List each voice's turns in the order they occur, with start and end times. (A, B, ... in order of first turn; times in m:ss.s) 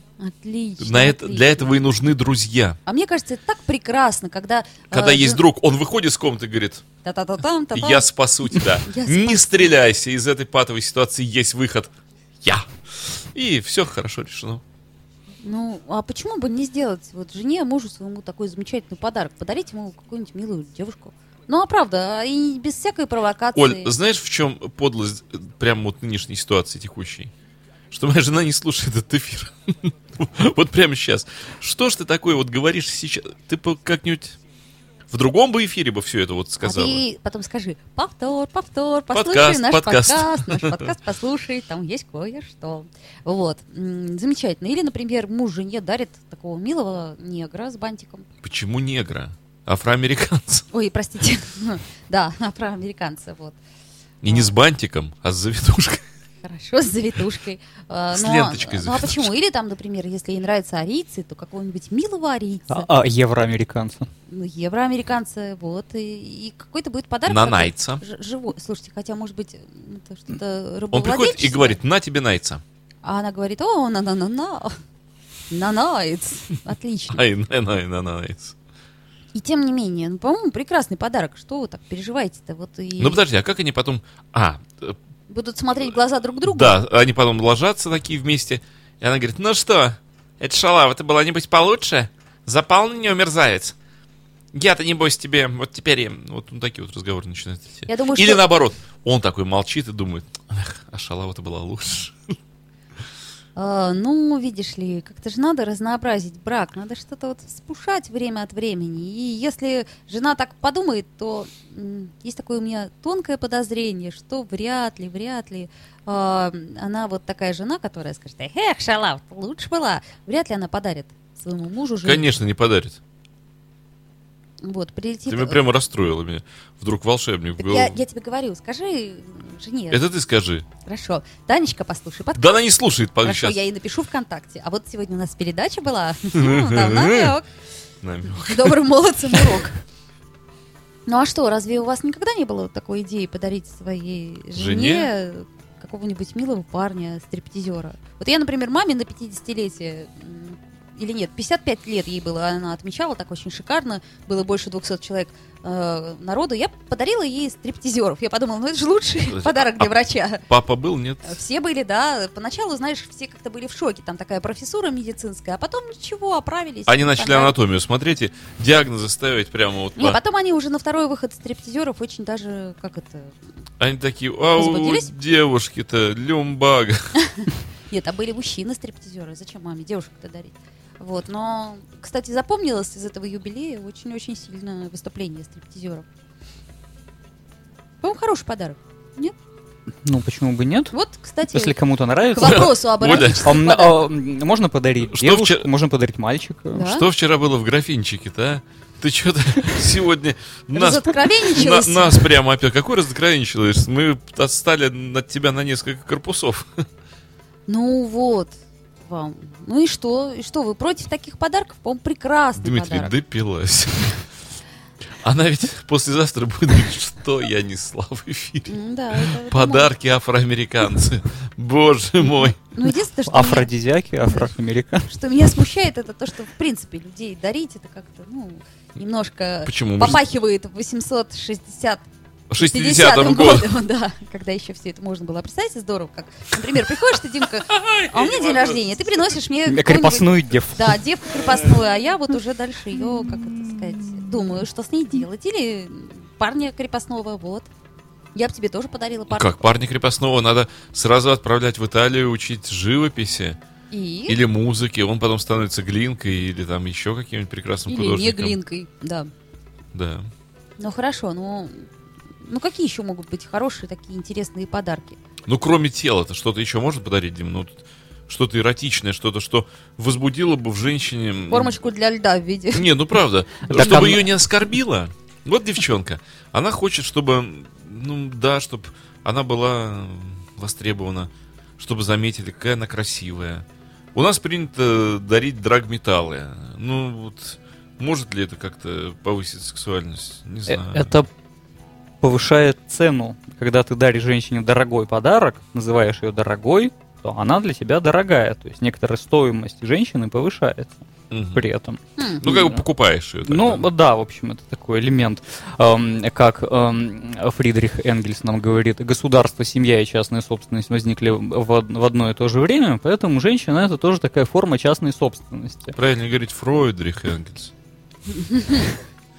0:00.2-0:01.8 A
0:00.8-0:02.8 B
0:02.9-0:05.4 A
0:04.9-0:06.8 B
0:07.0-0:08.1 A
0:07.7-0:14.6 B
0:08.8-0:09.7 A
0:15.4-0:23.9 A
0:23.6-0:27.3 B
0:27.9-0:34.4 B
0:35.1-0:37.0 B
0:36.6-0:48.3 A
0:39.1-0:40.9 B
0:48.4-0:50.6 B
0:50.7-0:53.6 A
0:54.2-0:56.0 B
0:54.2-0:54.5 A
0:56.4-1:02.9 A
0:58.1-0:59.3 B
1:02.7-1:04.1 C
1:04.3-1:11.8 A
1:07.3-1:08.0 B
1:10.9-1:12.6 B
1:13.0-1:14.8 A
1:15.5-1:17.2 A
1:17.1-1:18.6 B
1:19.3-1:23.2 A
1:23.0-1:25.0 B
1:25.3-1:26.8 A
1:26.4-1:33.8 B
1:34.5-1:42.3 B
1:37.9-1:38.5 A
1:43.6-2:02.4 A
2:02.0-2:03.0 B
2:04.6-2:05.6 A
2:05.3-2:08.0 B
2:07.6-2:10.0 A
2:09.9-2:10.7 B
2:10.9-2:12.6 A
2:12.4-2:13.6 B
2:13.2-2:17.5 A
2:16.3-2:17.4 B
2:18.0-2:19.6 B
2:18.3-2:19.8 A
2:21.1-2:40.5 A
2:24.6-2:25.1 B
2:39.3-2:39.9 B
2:40.5-2:41.4 B
2:41.2-2:47.6 A
2:46.9-2:50.2 B
2:50.0-2:53.4 A
2:53.8-2:57.1 B
2:54.6-2:55.1 A
2:57.2-3:06.0 A
3:08.0-3:09.3 A
3:10.0-3:11.0 C
3:10.9-3:11.8 A
3:11.5-3:16.9 C
3:12.3-3:14.1 A
3:12.4-3:13.5 B
3:15.0-3:15.7 B
3:16.7-3:17.1 A
3:16.8-3:26.8 B
3:20.7-3:22.3 A
3:27.7-3:33.1 A
3:32.6-3:34.2 B
3:35.2-3:42.6 B
3:38.7-3:39.9 A
3:42.7-3:43.7 A
3:43.3-3:45.1 C
3:45.1-3:52.0 A
3:49.6-3:50.2 B
3:52.5-3:53.7 B
3:52.6-4:07.7 A
3:57.7-3:59.0 B
3:59.7-4:01.0 C
4:08.4-4:09.8 A
4:09.3-4:13.6 B
4:13.9-4:14.4 A
4:14.3-4:18.6 B
4:17.9-4:19.3 A
4:19.9-4:20.3 B
4:20.8-4:21.9 A
4:22.4-4:25.2 A
4:25.5-4:31.8 B
4:31.5-4:33.0 A
4:32.7-4:51.2 B
4:33.6-4:34.3 C
4:33.7-4:34.2 A
4:50.7-4:51.3 C
4:52.2-5:01.0 C
5:01.3-5:01.7 B
5:01.6-5:02.8 C
5:02.2-5:02.5 A
5:02.4-5:03.9 B
5:03.5-5:16.0 C
5:16.0-5:17.7 B
5:18.3-5:18.9 A